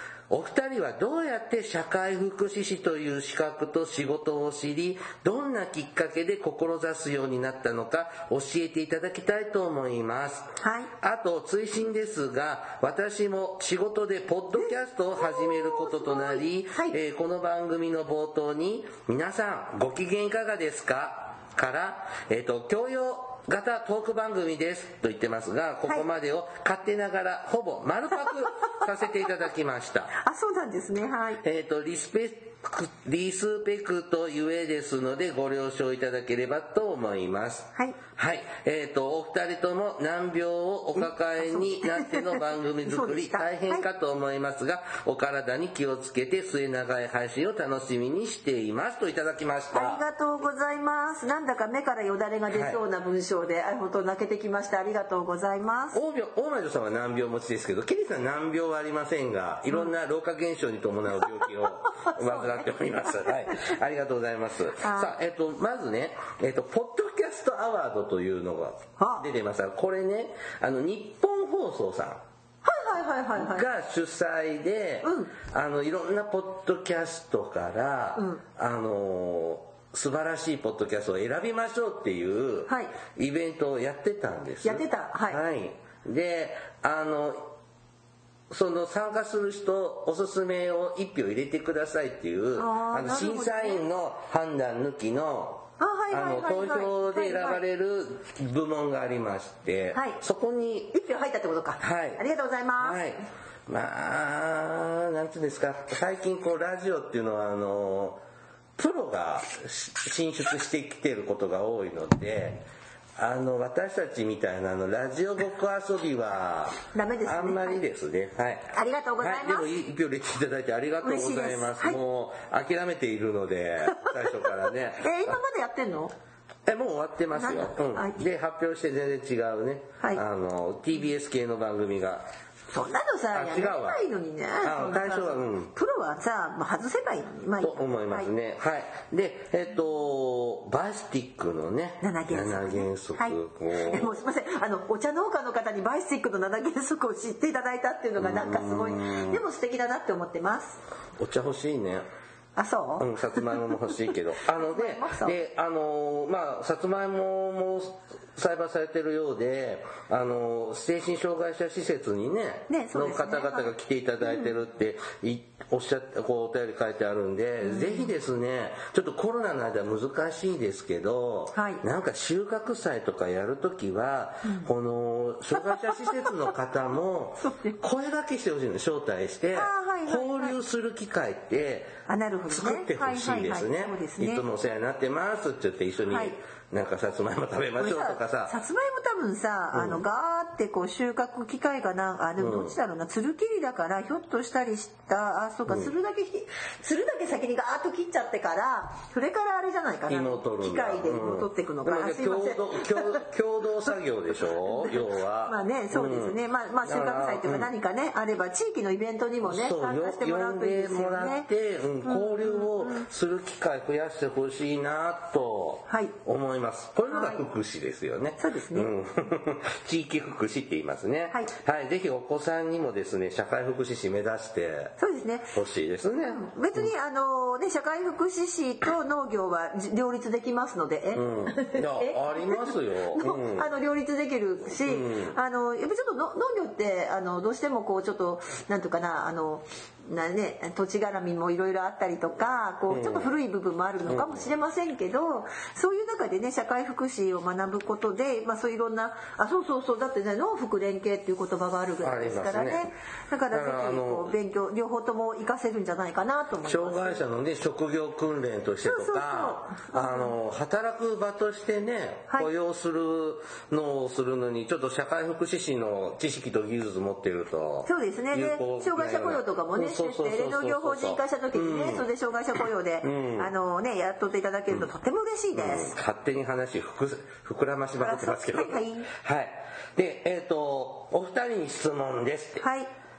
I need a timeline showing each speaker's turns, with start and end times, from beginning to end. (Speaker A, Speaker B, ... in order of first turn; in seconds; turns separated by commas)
Speaker A: 0.3-30.1, Speaker B: 10.6-10.9, Speaker B: 15.2-16.9, Speaker B: 30.1-31.4, Speaker A: 31.4-50.0, Speaker B: 41.0-43.8, Speaker B: 49.7-56.0, Speaker A: 52.5-52.8, Speaker A: 55.9-72.2, Speaker B: 62.0-62.6, Speaker B: 64.8-65.1, Speaker B: 69.0-69.2, Speaker B: 72.6-73.7, Speaker A: 73.3-87.5, Speaker B: 75.0-75.3, Speaker B: 78.2-78.4, Speaker B: 82.7-82.9, Speaker B: 84.6-85.4, Speaker A: 88.5-100.9, Speaker B: 92.5-93.8, Speaker B: 95.8-97.6, Speaker B: 99.9-100.2, Speaker B: 100.9-103.0, Speaker A: 101.8-102.2, Speaker A: 102.8-108.2, Speaker A: 108.8-112.6, Speaker A: 113.2-125.3, Speaker B: 116.9-117.8, Speaker B: 118.7-119.7, Speaker B: 121.0-122.0, Speaker B: 123.9-126.1, Speaker A: 126.7-132.3, Speaker B: 127.3-128.2, Speaker B: 132.7-138.3, Speaker A: 133.3-134.0, Speaker A: 134.6-135.7, Speaker A: 137.6-144.2, Speaker B: 142.0-150.8, Speaker A: 148.2-149.4, Speaker A: 151.2-152.1, Speaker B: 152.6-153.5, Speaker A: 153.0-181.9, Speaker B: 154.6-155.4, Speaker B: 162.7-163.7, Speaker B: 167.6-168.1, Speaker B: 171.5-171.8, Speaker B: 175.7-176.3, Speaker B: 177.4-177.8, Speaker B: 179.5-180.6, Speaker B: 182.1-184.4, Speaker A: 182.5-188.5, Speaker B: 186.1-186.3, Speaker B: 187.8-203.2, Speaker A: 189.7-190.0, Speaker A: 192.4-192.8, Speaker A: 195.7-195.9, Speaker A: 200.1-207.7, Speaker B: 204.7-211.5, Speaker A: 209.4-225.0, Speaker B: 212.0-213.0, Speaker B: 215.9-216.1, Speaker B: 217.1-217.4, Speaker B: 218.4-218.9, Speaker B: 225.0-225.5, Speaker A: 225.5-226.9, Speaker B: 226.2-257.2, Speaker A: 231.1-233.7, Speaker A: 234.8-235.3, Speaker A: 242.9-243.3, Speaker A: 244.1-244.5, Speaker A: 252.0-252.9, Speaker A: 253.5-254.3, Speaker A: 256.6-272.0, Speaker B: 258.8-260.3, Speaker B: 267.9-275.9, Speaker A: 273.0-273.5, Speaker A: 275.5-282.6, Speaker B: 278.0-279.1, Speaker B: 282.6-282.9